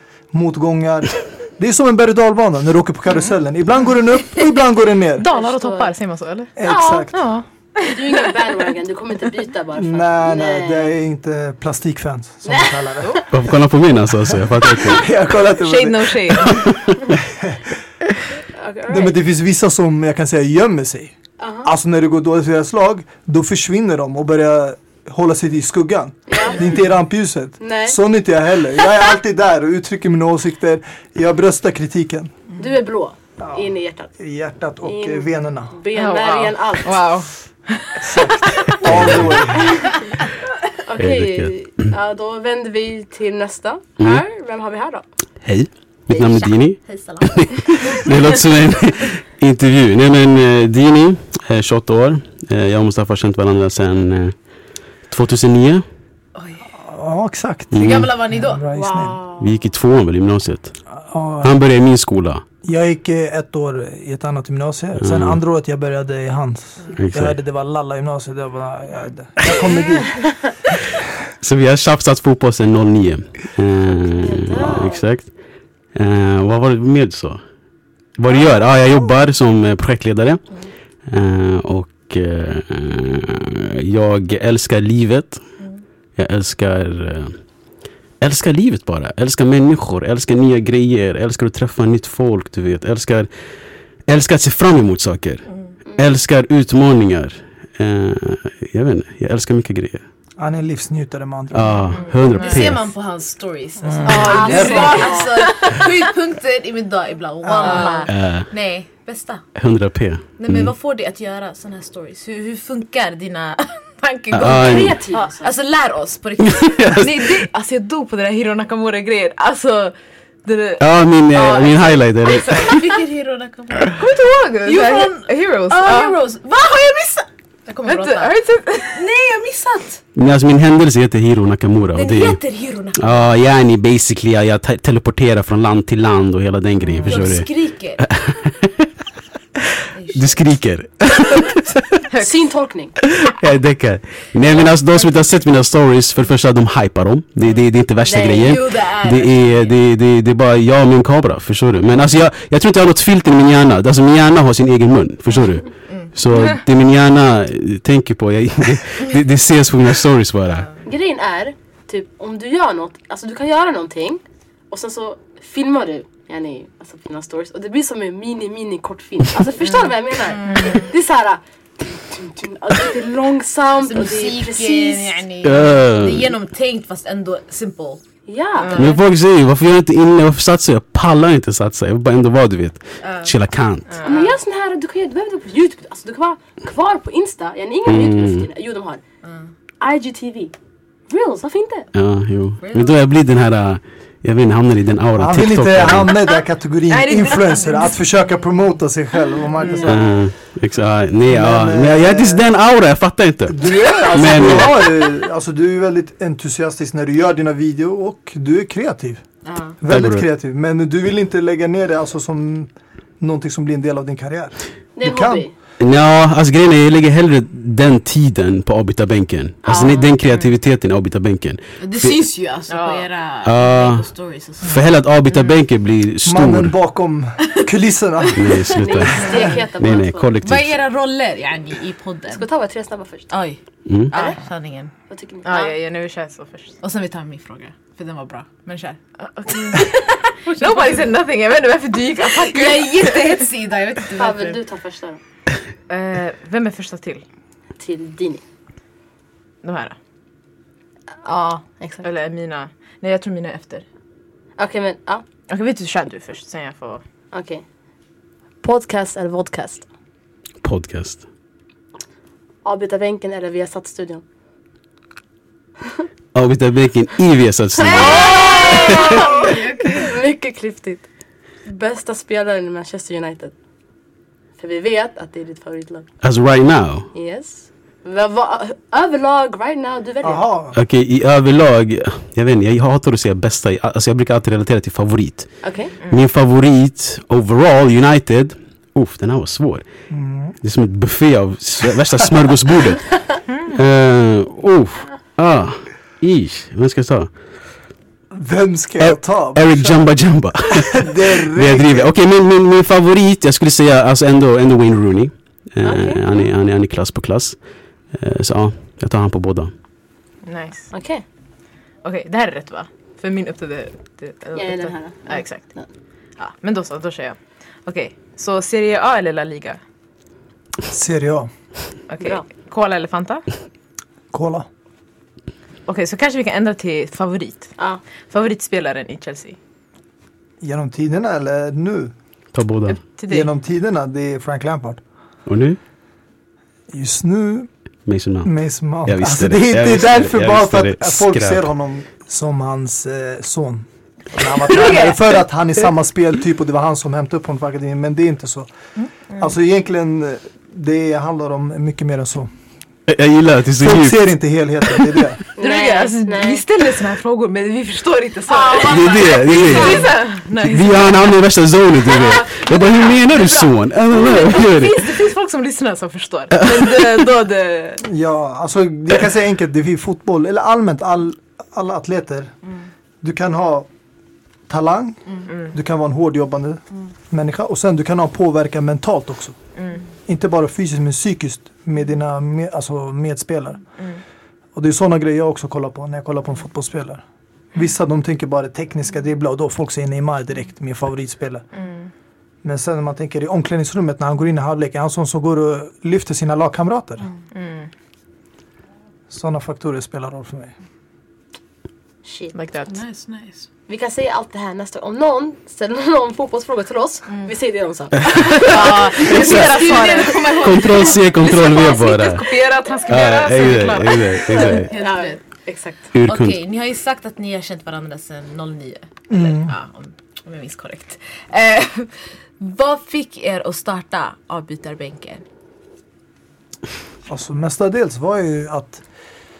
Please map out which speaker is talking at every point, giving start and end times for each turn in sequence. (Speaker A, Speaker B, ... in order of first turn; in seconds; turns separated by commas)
Speaker A: 0.3-5.3, Speaker B: 5.2-6.5, Speaker C: 5.3-5.9, Speaker A: 6.6-7.3, Speaker C: 6.6-7.1, Speaker B: 7.1-8.5, Speaker C: 7.8-10.9, Speaker A: 9.7-13.2, Speaker C: 12.4-13.2, Speaker D: 13.3-15.1, Speaker A: 14.3-16.5, Speaker B: 15.6-16.7, Speaker D: 16.5-17.0, Speaker A: 17.2-17.7, Speaker C: 18.5-19.1, Speaker A: 18.9-21.1, Speaker C: 21.4-21.7, Speaker A: 21.6-32.3, Speaker C: 26.3-26.7, Speaker C: 27.6-28.0, Speaker C: 32.6-34.1, Speaker A: 34.2-35.8, Speaker C: 34.8-37.1, Speaker B: 35.9-38.8, Speaker A: 38.0-39.8, Speaker D: 38.8-39.6, Speaker C: 40.8-45.0, Speaker D: 41.0-41.9, Speaker D: 45.4-54.3, Speaker C: 46.1-46.5, Speaker E: 46.8-48.4, Speaker D: 55.1-55.8, Speaker E: 56.3-56.6, Speaker A: 56.7-59.2, Speaker D: 57.7-58.2, Speaker E: 57.7-58.6, Speaker C: 58.7-59.6, Speaker D: 59.4-60.7, Speaker A: 61.0-61.6, Speaker D: 61.4-62.4, Speaker A: 62.6-70.2, Speaker D: 65.0-65.4, Speaker D: 66.9-67.4, Speaker D: 71.4-75.3, Speaker C: 74.2-75.0, Speaker D: 75.9-77.4, Speaker D: 78.2-80.4, Speaker D: 81.1-85.4, Speaker D: 86.2-87.3, Speaker D: 88.2-93.3, Speaker D: 94.1-100.0, Speaker A: 100.4-101.9, Speaker D: 101.5-102.9, Speaker B: 101.9-102.7, Speaker E: 102.3-109.4, Speaker A: 103.8-105.0, Speaker C: 104.0-105.5, Speaker B: 104.1-105.7, Speaker A: 107.4-107.9, Speaker B: 107.6-108.1, Speaker D: 108.1-108.5, Speaker D: 109.5-110.7, Speaker E: 110.4-116.9, Speaker D: 114.3-115.0, Speaker C: 114.4-115.5, Speaker D: 116.4-117.4, Speaker B: 116.9-122.8, Speaker D: 120.8-122.8, Speaker E: 122.5-124.0, Speaker B: 123.9-126.2, Speaker E: 124.6-128.3, Speaker B: 127.8-129.0, Speaker E: 128.9-130.0, Speaker D: 130.1-132.4, Speaker E: 131.9-133.3, Speaker D: 132.9-138.9, Speaker B: 136.9-137.3, Speaker E: 137.0-138.0, Speaker E: 139.9-140.4, Speaker D: 140.1-142.0, Speaker C: 142.2-142.9, Speaker D: 143.0-160.7, Speaker C: 148.0-148.6, Speaker E: 148.3-149.8, Speaker C: 160.8-175.2, Speaker E: 170.3-170.8, Speaker B: 170.5-170.8, Speaker E: 173.8-178.0, Speaker D: 175.4-176.3, Speaker C: 178.3-178.8, Speaker B: 178.6-179.0, Speaker E: 178.6-179.0, Speaker D: 178.8-183.9, Speaker E: 183.0-183.3, Speaker B: 183.9-184.3, Speaker C: 184.0-189.0, Speaker D: 187.8-188.5, Speaker E: 189.2-189.5, Speaker C: 189.8-190.5, Speaker C: 191.1-191.9, Speaker D: 191.9-196.1, Speaker E: 192.6-193.0, Speaker A: 195.2-200.1, Speaker B: 196.9-197.9, Speaker B: 199.6-199.9, Speaker D: 199.9-204.8, Speaker A: 201.3-202.4, Speaker A: 203.5-209.2, Speaker E: 209.4-209.8, Speaker A: 209.8-215.4, Speaker D: 209.9-210.2, Speaker C: 214.9-215.5, Speaker D: 215.8-222.2, Speaker C: 219.6-220.1, Speaker E: 221.8-224.8, Speaker B: 222.7-223.1, Speaker D: 223.4-224.1, Speaker D: 224.6-226.7, Speaker A: 226.2-228.6, Speaker D: 228.3-230.8, Speaker C: 228.7-230.3, Speaker E: 230.4-232.4, Speaker C: 232.3-233.3, Speaker E: 233.3-234.9, Speaker D: 233.9-234.1, Speaker C: 234.1-234.4, Speaker C: 235.1-235.8, Speaker B: 235.4-236.8, Speaker E: 236.8-241.1, Speaker B: 239.2-243.4, Speaker E: 242.2-244.6, Speaker C: 244.2-245.2, Speaker B: 245.9-247.2, Speaker C: 247.8-248.4, Speaker B: 249.6-249.9, Speaker C: 251.8-252.1, Speaker B: 252.0-253.8, Speaker C: 254.6-255.2, Speaker B: 255.5-257.0, Speaker C: 257.3-257.6, Speaker C: 258.6-259.9, Speaker D: 260.6-261.2, Speaker C: 262.6-264.2, Speaker D: 266.3-269.2, Speaker C: 267.8-271.1, Speaker E: 267.8-270.1, Speaker C: 271.6-273.5, Speaker C: 274.6-276.1, Speaker D: 276.2-277.1, Speaker C: 277.1-280.4, Speaker A: 280.2-280.8, Speaker D: 280.7-285.5, Speaker C: 285.6-285.9, Speaker D: 286.1-289.8, Speaker A: 290.1-290.6, Speaker D: 290.6-297.3, Speaker A: 298.3-302.1, Speaker D: 299.0-307.6, Speaker D: 308.1-309.7, Speaker B: 310.4-310.9, Speaker C: 310.9-311.2, Speaker B: 312.0-315.7, Speaker C: 314.5-315.9, Speaker B: 316.4-319.8, Speaker A: 320.9-321.5, Speaker B: 322.1-323.5, Speaker C: 322.2-322.4, Speaker A: 324.3-324.7, Speaker B: 325.9-327.7, Speaker B: 328.3-329.6, Speaker A: 330.6-332.1, Speaker D: 332.5-333.0, Speaker B: 332.9-333.5, Speaker A: 333.3-335.0, Speaker D: 335.5-335.8, Speaker A: 336.9-337.7, Speaker D: 338.1-338.5, Speaker A: 338.4-348.7, Speaker D: 339.1-341.6, Speaker B: 344.7-345.2, Speaker A: 349.4-352.5, Speaker D: 353.1-354.2, Speaker A: 353.8-355.4, Speaker C: 355.6-356.6, Speaker B: 355.6-361.4, Speaker E: 358.5-360.2, Speaker D: 358.8-365.2, Speaker B: 362.1-368.1, Speaker E: 362.2-363.7, Speaker D: 366.7-367.0, Speaker A: 368.0-372.5, Speaker A: 373.2-373.9, Speaker A: 374.7-379.6, Speaker B: 375.5-375.7, Speaker B: 379.8-380.0, Speaker A: 380.3-383.8, Speaker A: 384.7-387.2, Speaker A: 387.7-391.6, Speaker A: 392.6-397.2, Speaker B: 397.5-397.9, Speaker A: 399.3-400.7, Speaker C: 402.2-402.5, Speaker B: 402.5-403.0, Speaker E: 402.9-403.7, Speaker C: 403.9-412.1, Speaker D: 408.3-409.8, Speaker E: 408.7-411.3, Speaker B: 408.7-414.9, Speaker D: 410.6-412.4, Speaker D: 413.1-414.9, Speaker E: 414.5-415.4, Speaker C: 414.9-416.1, Speaker D: 416.1-416.6, Speaker E: 416.2-425.4, Speaker A: 419.3-419.7, Speaker A: 427.3-429.0